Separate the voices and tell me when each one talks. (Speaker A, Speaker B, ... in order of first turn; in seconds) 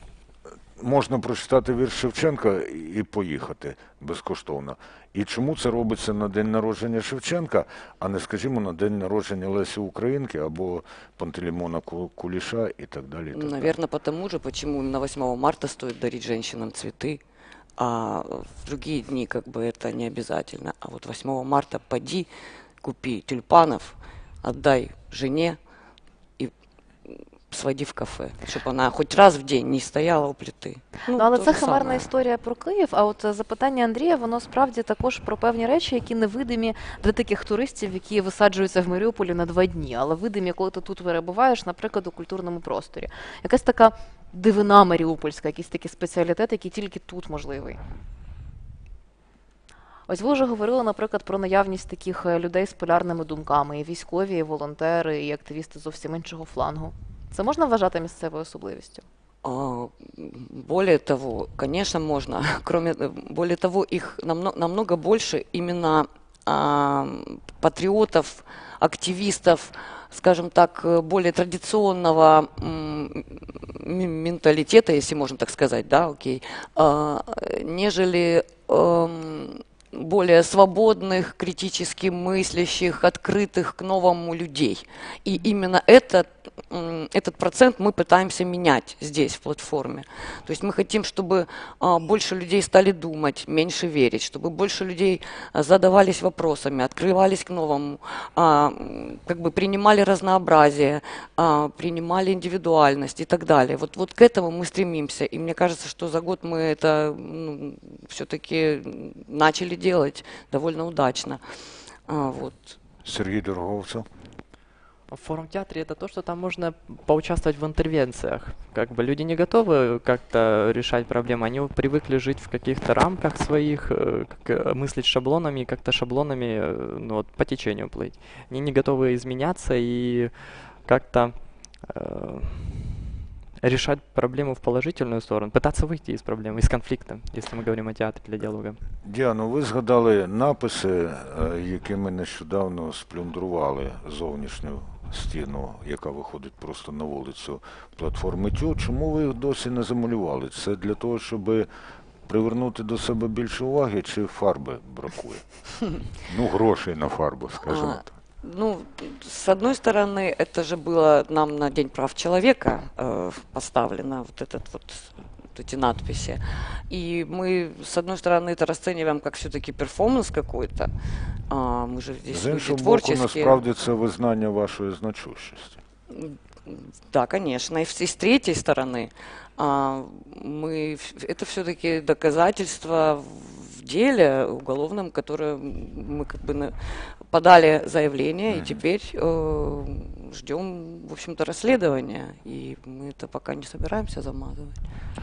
Speaker A: 0.8-13.7, 113.0-114.0, 139.0-151.7, 152.3-155.4, 156.2-158.1, 172.3-175.8, 188.5-188.8
Speaker B: 13.3-17.2, 17.8-22.3, 22.8-25.6, 27.1-32.1, 59.4-111.4, 112.1-112.8, 157.6-170.9, 171.5-173.7, 176.1-186.7, 187.3-194.8
Speaker C: 31.1-47.8, 50.1-59.0
Speaker D: 115.1-133.0, 133.6-138.8